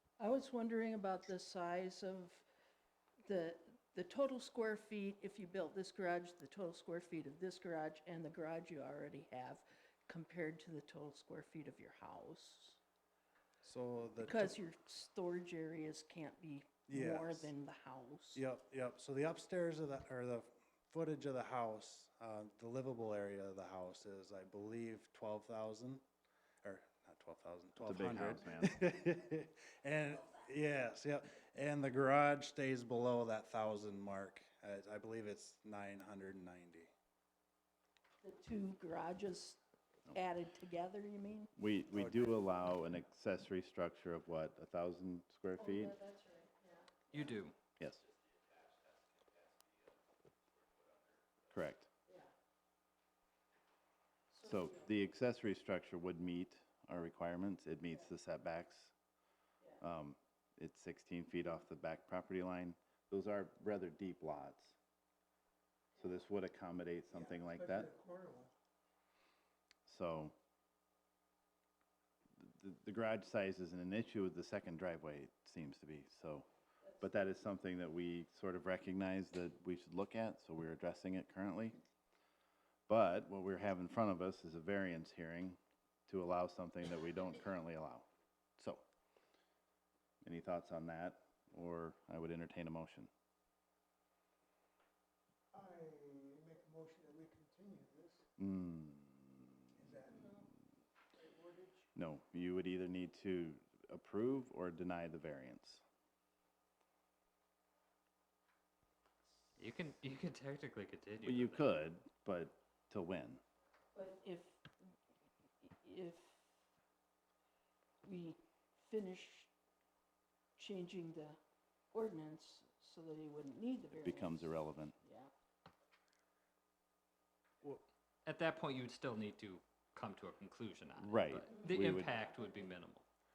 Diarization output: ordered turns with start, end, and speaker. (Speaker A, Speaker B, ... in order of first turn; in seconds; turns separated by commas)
Speaker A: 0.2-2.5, Speaker A: 3.2-12.8, Speaker B: 13.6-14.6, Speaker A: 14.2-18.4, Speaker B: 16.9-17.5, Speaker B: 18.4-26.0, Speaker B: 26.6-36.9, Speaker C: 27.8-28.9, Speaker A: 38.2-41.5, Speaker C: 41.6-46.0, Speaker B: 41.9-42.3, Speaker A: 45.6-47.4, Speaker D: 47.1-47.5, Speaker C: 51.5-51.9, Speaker A: 54.3-54.9, Speaker C: 54.4-58.9, Speaker C: 59.8-64.8, Speaker C: 66.0-67.9, Speaker E: 67.1-68.5, Speaker C: 69.9-70.3, Speaker C: 72.4-76.5, Speaker C: 77.0-81.8, Speaker C: 82.9-88.1, Speaker C: 88.6-88.8, Speaker C: 90.2-93.1, Speaker E: 95.5-98.3, Speaker C: 98.4-99.6, Speaker E: 99.8-100.5, Speaker E: 101.1-101.9, Speaker C: 102.0-105.8, Speaker D: 109.6-111.7, Speaker C: 111.2-113.4, Speaker A: 113.9-114.7, Speaker A: 115.6-116.5, Speaker A: 118.0-119.5, Speaker A: 120.6-121.4, Speaker A: 121.9-125.3, Speaker C: 124.0-125.0, Speaker D: 128.2-133.1, Speaker C: 131.0-132.1